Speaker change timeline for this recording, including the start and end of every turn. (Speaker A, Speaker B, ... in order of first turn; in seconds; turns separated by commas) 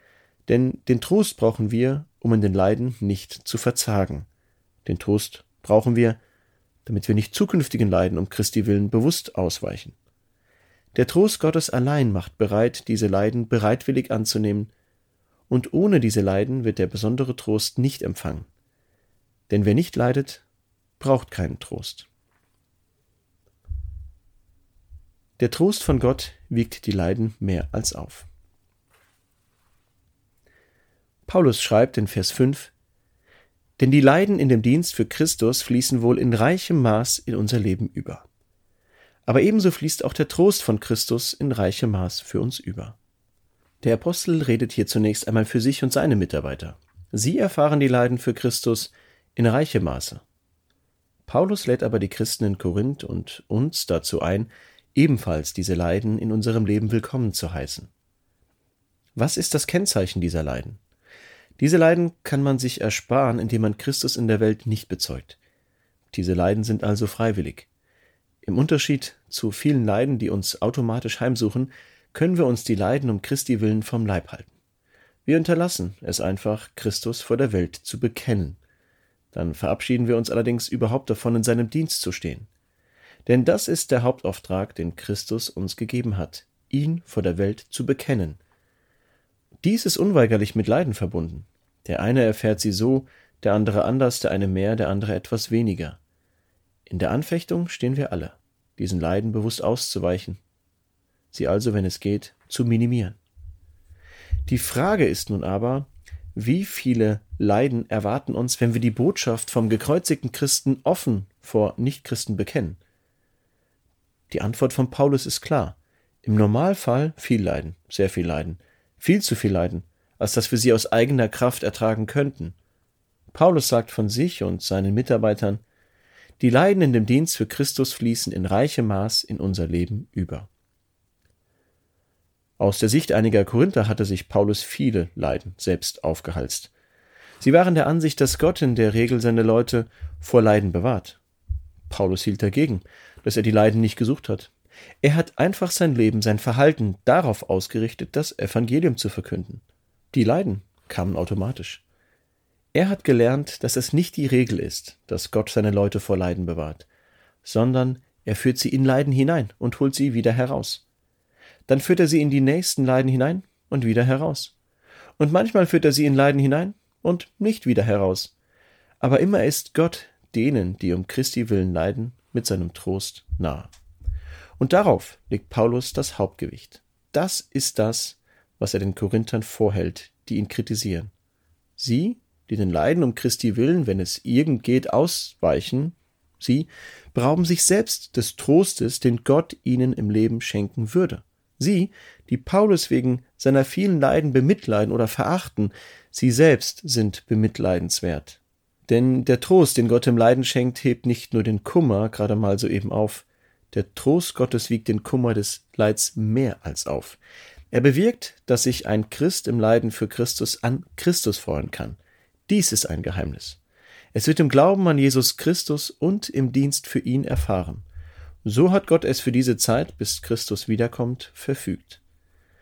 Speaker A: 0.5-4.3, Speaker A: 4.8-6.2, Speaker A: 6.8-9.9, Speaker A: 10.9-14.7, Speaker A: 15.5-18.5, Speaker A: 19.5-20.4, Speaker A: 21.0-22.1, Speaker A: 25.4-28.3, Speaker A: 31.2-32.7, Speaker A: 33.8-38.2, Speaker A: 39.2-43.0, Speaker A: 43.8-50.2, Speaker A: 51.2-57.9, Speaker A: 59.1-60.8, Speaker A: 61.6-65.4, Speaker A: 66.1-67.7, Speaker A: 68.4-74.5, Speaker A: 75.2-78.6, Speaker A: 79.3-82.5, Speaker A: 83.2-88.4, Speaker A: 89.6-96.0, Speaker A: 96.8-100.4, Speaker A: 101.3-103.2, Speaker A: 104.5-112.8, Speaker A: 114.3-122.5, Speaker A: 123.3-125.6, Speaker A: 126.4-130.5, Speaker A: 132.6-136.7, Speaker A: 137.4-141.2, Speaker A: 141.9-151.8, Speaker A: 152.7-156.9, Speaker A: 157.4-160.8, Speaker A: 161.7-164.5, Speaker A: 165.2-168.3, Speaker A: 169.0-173.7, Speaker A: 174.6-181.1, Speaker A: 181.8-207.2, Speaker A: 207.7-213.6, Speaker A: 214.1-217.8, Speaker A: 218.4-222.0